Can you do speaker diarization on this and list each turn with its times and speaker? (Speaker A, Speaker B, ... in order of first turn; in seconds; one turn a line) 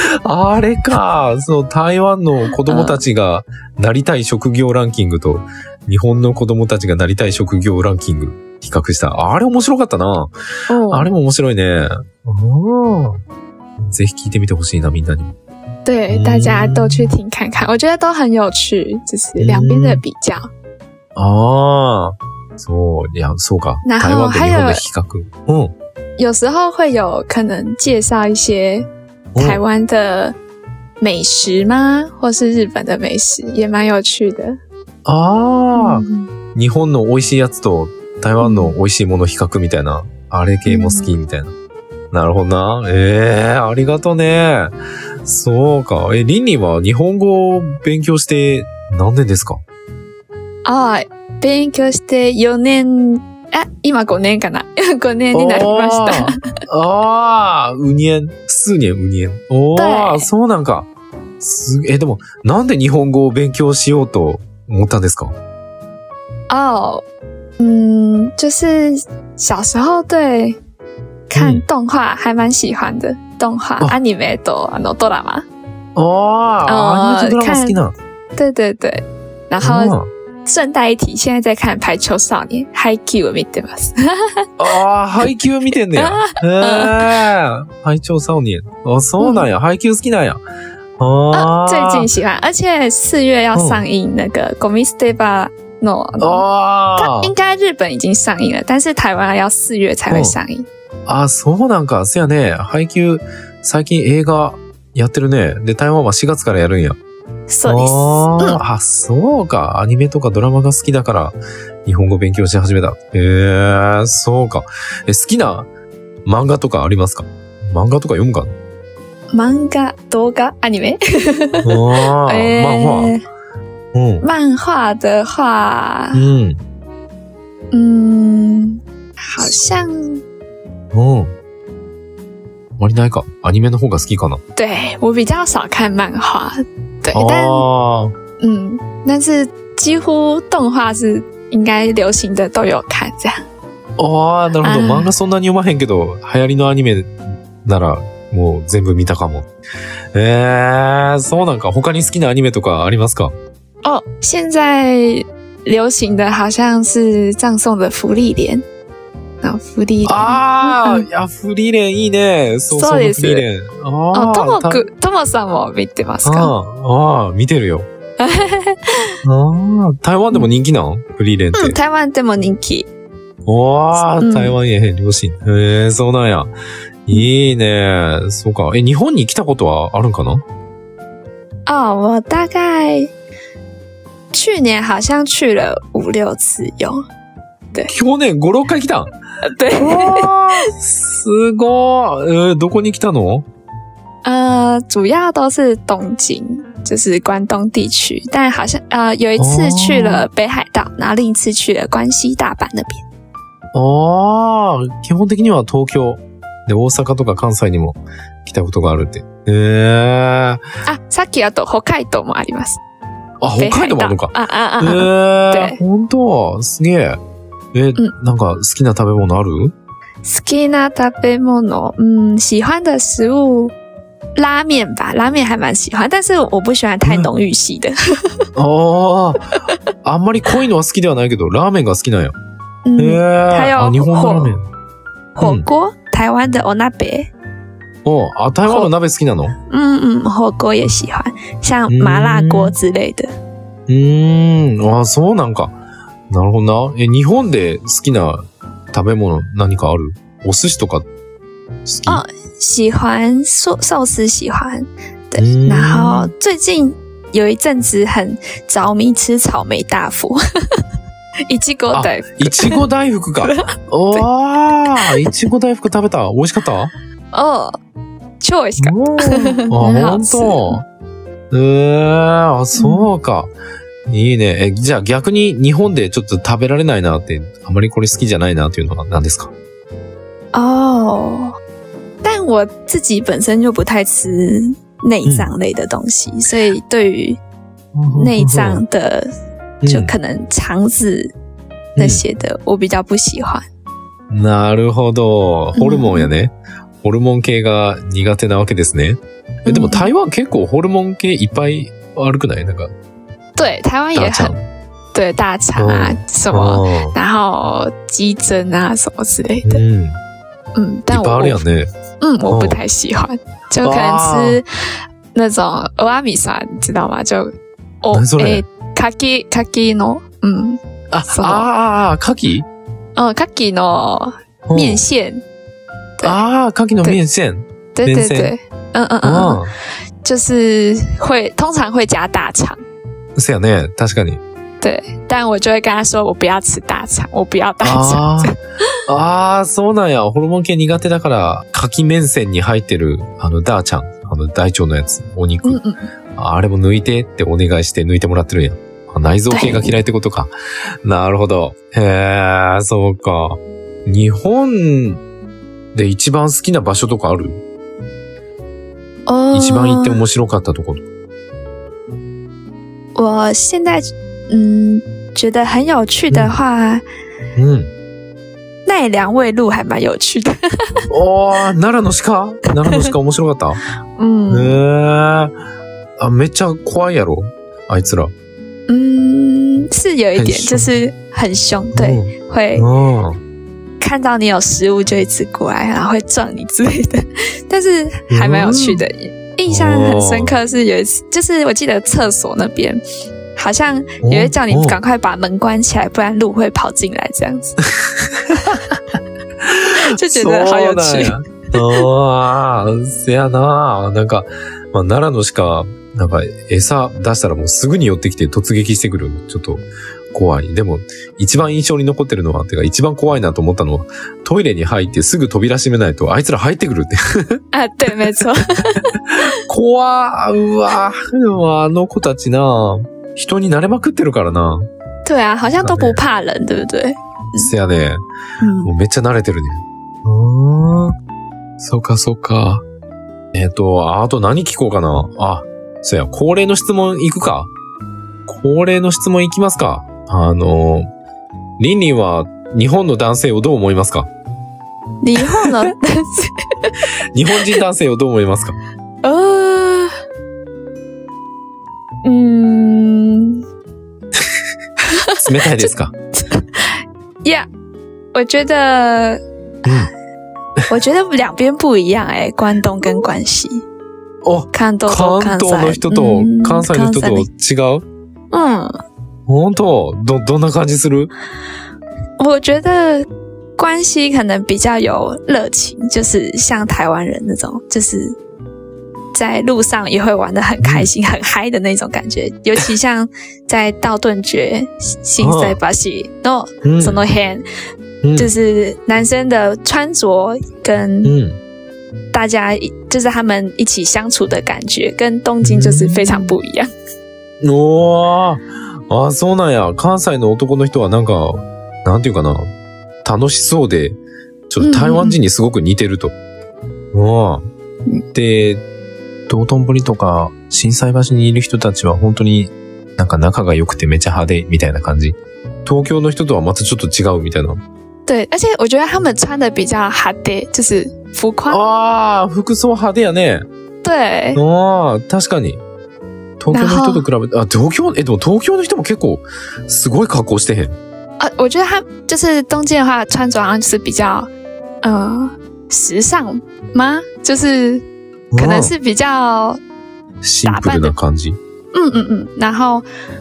Speaker A: 0.2-10.3
Speaker B: 2.6-3.0
Speaker B: 10.7-11.1
Speaker A: 10.9-13.2
Speaker A: 13.9-15.3
Speaker B: 15.8-20.5
Speaker A: 16.1-17.1
Speaker A: 19.4-20.0
Speaker A: 21.1-25.7
Speaker B: 23.8-24.8
Speaker B: 26.2-30.4
Speaker A: 29.3-29.6
Speaker B: 31.0-34.6
Speaker A: 35.0-41.5
Speaker B: 35.7-36.3
Speaker B: 38.4-38.7
Speaker B: 40.6-41.1
Speaker A: 42.1-44.7
Speaker A: 45.2-49.6
Speaker B: 50.6-56.4
Speaker A: 55.3-60.9
Speaker B: 59.8-60.3
Speaker A: 61.4-65.3
Speaker B: 66.5-67.0
Speaker B: 67.6-70.6
Speaker B: 71.3-75.5
Speaker A: 71.3-71.6
Speaker A: 76.0-77.9
Speaker B: 76.6-77.8
Speaker B: 78.3-79.9
Speaker A: 79.6-80.0
Speaker B: 80.5-84.3
Speaker A: 84.6-90.4
Speaker B: 85.9-87.1
Speaker B: 89.2-89.5
Speaker A: 91.0-92.1
Speaker B: 91.3-96.4
Speaker A: 93.5-93.8
Speaker A: 96.2-97.3
Speaker B: 97.0-100.7
Speaker A: 100.1-100.3
Speaker A: 101.1-107.0
Speaker B: 107.5-108.6
Speaker A: 107.7-115.7
Speaker A: 116.2-118.5
Speaker B: 119.3-121.7
Speaker A: 121.6-123.1
Speaker B: 122.2-123.2
Speaker A: 123.9-124.3
Speaker B: 124.2-126.2
Speaker A: 126.1-126.6
Speaker B: 127.7-130.2
Speaker A: 130.9-131.3
Speaker A: 132.8-134.4
Speaker B: 134.6-137.6
Speaker A: 137.1-138.1
Speaker B: 138.4-143.4
Speaker A: 144.0-149.4
Speaker B: 144.6-145.1
Speaker A: 150.1-153.3
Speaker B: 153.8-158.6
Speaker B: 159.4-161.0
Speaker A: 160.0-164.8
Speaker B: 162.7-163.4
Speaker B: 164.1-166.5
Speaker A: 166.2-167.8
Speaker B: 168.2-169.1
Speaker A: 169.2-171.8
Speaker B: 171.6-172.9
Speaker A: 173.5-176.5
Speaker B: 173.9-174.5
Speaker A: 177.1-180.4
Speaker B: 181.7-183.1
Speaker B: 184.3-187.0
Speaker A: 187.9-189.1
Speaker B: 189.5-190.3
Speaker A: 189.7-193.4
Speaker B: 194.2-203.0
Speaker A: 199.4-200.2
Speaker A: 203.7-210.6
Speaker B: 210.8-212.8
Speaker A: 213.4-217.2
Speaker B: 213.6-215.8
Speaker A: 217.7-219.7
Speaker B: 220.2-223.7
Speaker B: 224.3-228.4
Speaker A: 227.0-227.3
Speaker A: 228.6-229.5
Speaker A: 230.0-232.3
Speaker B: 232.8-234.5
Speaker A: 233.0-234.7
Speaker B: 235.4-237.3
Speaker A: 235.4-235.6
Speaker A: 238.0-239.5
Speaker B: 238.7-238.9
Speaker B: 239.7-243.3
Speaker A: 241.9-242.8
Speaker A: 243.9-245.7
Speaker A: 246.3-251.1
Speaker A: 251.8-252.2
Speaker B: 252.1-260.4
Speaker A: 255.4-256.3
Speaker B: 261.5-262.8
Speaker A: 261.9-266.9
Speaker B: 263.4-264.3
Speaker B: 264.9-265.3
Speaker B: 267.3-267.7
Speaker B: 268.4-270.8
Speaker A: 268.8-270.8
Speaker A: 271.5-273.5
Speaker B: 272.7-273.1
Speaker A: 274.1-279.5
Speaker B: 280.5-281.5
Speaker B: 282.2-287.4
Speaker A: 285.2-285.5
Speaker A: 287.9-288.8
Speaker B: 288.1-289.3
Speaker A: 289.8-290.1
Speaker B: 289.8-291.3
Speaker B: 292.0-293.6
Speaker A: 292.0-292.2
Speaker A: 294.3-296.5
Speaker B: 295.7-296.3
Speaker A: 297.0-302.9
Speaker B: 299.7-300.1
Speaker B: 303.6-304.5
Speaker A: 304.1-304.6
Speaker B: 305.1-309.8
Speaker A: 305.8-307.1
Speaker A: 309.6-310.2
Speaker B: 310.8-311.6
Speaker A: 311.1-311.9
Speaker B: 312.2-314.6
Speaker A: 312.5-312.8
Speaker A: 313.8-314.6
Speaker B: 315.3-321.7
Speaker A: 318.1-318.6
Speaker A: 321.1-322.6
Speaker B: 323.1-325.4
Speaker A: 324.7-325.0
Speaker A: 326.2-328.5
Speaker B: 327.9-329.6
Speaker A: 329.2-329.7
Speaker B: 330.2-332.8
Speaker A: 333.4-334.4
Speaker B: 334.8-338.6
Speaker A: 337.8-338.6
Speaker A: 339.1-345.8
Speaker B: 345.6-346.0
Speaker A: 346.4-350.5
Speaker B: 349.5-349.9
Speaker A: 351.0-355.2
Speaker A: 355.9-357.6
Speaker B: 359.2-360.2
Speaker A: 359.5-361.0
Speaker B: 363.1-367.0
Speaker A: 366.3-366.6
Speaker A: 367.6-367.9
Speaker B: 368.9-370.9
Speaker A: 371.1-373.8
Speaker B: 372.8-373.1
Speaker B: 374.2-374.8
Speaker A: 374.5-375.5
Speaker A: 376.2-378.3
Speaker B: 378.9-382.9
Speaker A: 380.4-380.9
Speaker A: 381.9-383.4
Speaker B: 384.0-393.0
Speaker A: 388.3-389.0
Speaker A: 389.7-390.6
Speaker B: 393.6-397.8
Speaker A: 394.2-395.0
Speaker A: 398.5-398.8
Speaker A: 399.6-417.6
Speaker B: 400.1-402.1
Speaker B: 417.7-419.1
Speaker A: 419.7-424.8
Speaker B: 425.2-427.7
Speaker A: 425.8-426.2
Speaker A: 427.6-428.2
Speaker B: 428.6-428.9
Speaker A: 428.8-431.1
Speaker A: 431.8-432.8
Speaker A: 433.5-437.7
Speaker A: 438.5-441.1
Speaker A: 441.8-444.3
Speaker B: 445.2-447.0
Speaker A: 447.3-448.8
Speaker B: 449.2-450.1
Speaker B: 452.2-453.6
Speaker B: 455.2-456.9
Speaker A: 455.4-456.1
Speaker B: 458.3-460.0
Speaker A: 459.8-460.1
Speaker B: 460.9-463.8
Speaker A: 464.4-468.0
Speaker B: 464.7-467.5
Speaker B: 468.5-468.9
Speaker A: 469.5-471.3
Speaker B: 472.4-473.2
Speaker B: 473.8-478.3
Speaker B: 479.3-487.6
Speaker A: 480.8-481.1
Speaker A: 485.4-485.8
Speaker A: 486.8-487.2
Speaker A: 488.2-488.5
Speaker B: 488.4-491.3
Speaker A: 491.2-491.6
Speaker B: 492.3-496.9
Speaker A: 495.6-496.5
Speaker A: 497.6-502.7
Speaker A: 503.2-504.1
Speaker A: 504.7-506.3
Speaker B: 504.8-505.4
Speaker A: 507.1-507.6
Speaker A: 508.3-508.8
Speaker A: 509.5-517.8
Speaker B: 518.2-521.8
Speaker A: 521.7-523.6
Speaker B: 524.0-524.6
Speaker A: 524.5-525.8
Speaker A: 526.6-530.9
Speaker B: 526.7-527.3
Speaker B: 531.4-534.5
Speaker B: 535.0-539.8
Speaker A: 538.5-538.9
Speaker A: 540.4-541.6
Speaker B: 540.6-541.1
Speaker B: 541.9-543.0